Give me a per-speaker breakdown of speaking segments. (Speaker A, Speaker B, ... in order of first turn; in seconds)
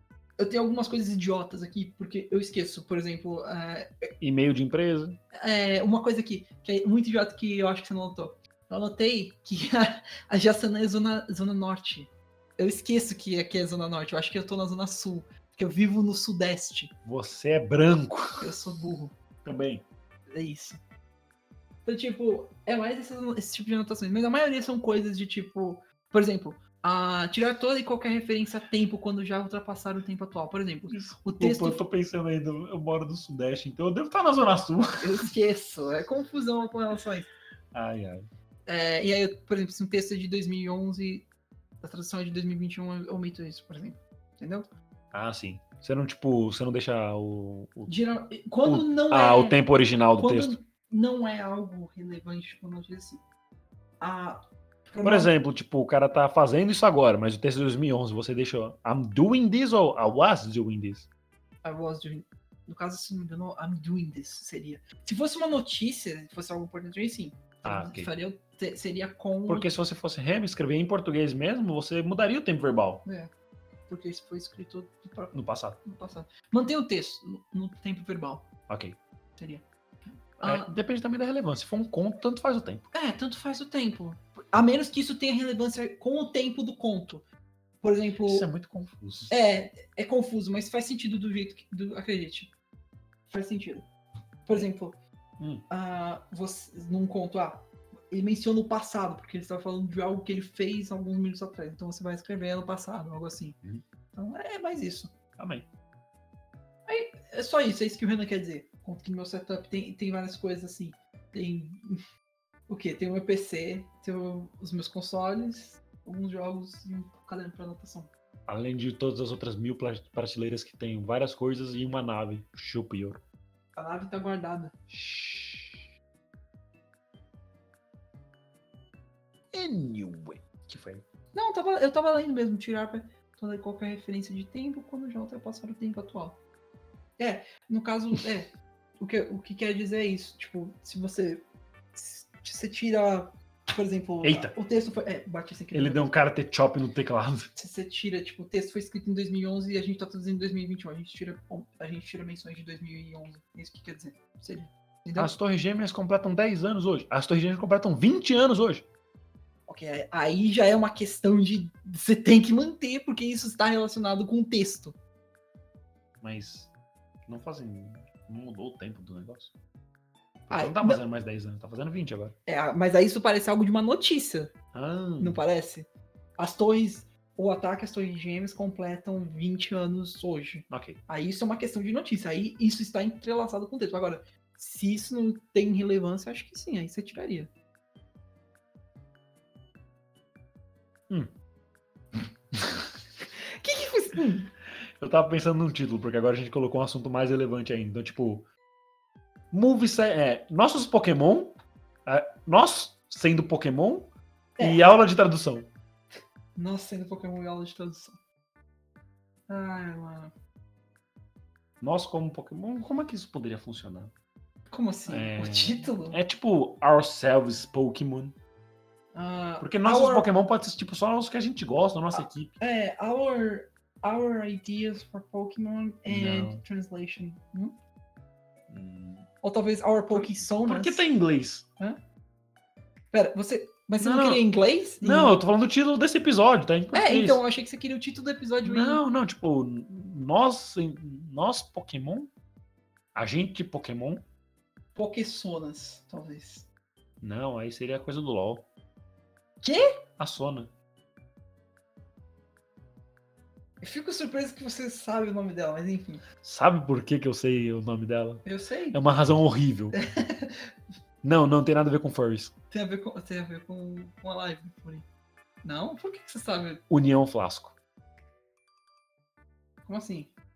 Speaker A: 0.4-4.1, 5.3-16.9, 18.4-19.1, 20.3-20.8, 21.8-31.8, 35.0-37.3, 38.7-41.3, 41.8-44.7, 47.9-53.2, 54.0-55.3, 61.6-69.7, 73.0-73.3, 73.9-78.5, 79.4-79.6, 80.4-80.7, 82.9-87.2, 87.8-88.5, 89.3-92.5, 93.3-93.9, 94.5-95.0, 95.7-103.6, 104.1-105.1, 106.9-112.0, 112.7-118.1, 123.7-124.8, 131.3-136.4, 137.2-146.1, 147.6-155.3, 159.7-164.9, 170.5-171.0, 172.4-174.5, 175.2-187.5, 193.5-194.5, 204.6-205.0, 206.5-208.2, 209.5-210.3, 214.7-216.2, 219.1-220.3, 222.6-227.8, 229.4-231.0, 233.1-235.4, 236.9-239.0, 244.9-246.7, 249.6-250.0, 253.8-256.2, 258.4-259.0, 259.9-260.7, 262.7-265.1, 265.6-266.8, 269.9-270.3
Speaker B: 4.2-5.2, 17.0-18.5, 19.4-19.8, 30.9-35.0, 37.7-38.3, 45.1-48.0, 48.6-50.6, 55.0-61.1, 67.6-68.1, 69.5-73.0, 75.3-75.8, 78.7-79.0, 80.4-82.9, 88.2-89.3, 95.4-95.6, 105.4-105.7, 118.5-123.2, 124.9-125.8, 129.5-131.0, 144.2-144.5, 145.7-147.5, 155.2-158.9, 166.2-166.7, 167.2-169.5, 170.5-172.3, 174.7-175.4, 180.7-181.0, 192.5-192.9, 195.0-198.5, 199.5-205.7, 211.8-214.1, 215.1-218.3, 219.6-222.6, 226.1-226.6, 228.7-229.3, 230.1-231.7, 234.0-234.5, 235.0-237.4, 238.6-242.3, 243.1-244.2, 247.2-248.7, 250.2-250.7, 256.4-259.9, 261.2-262.5, 266.9-267.8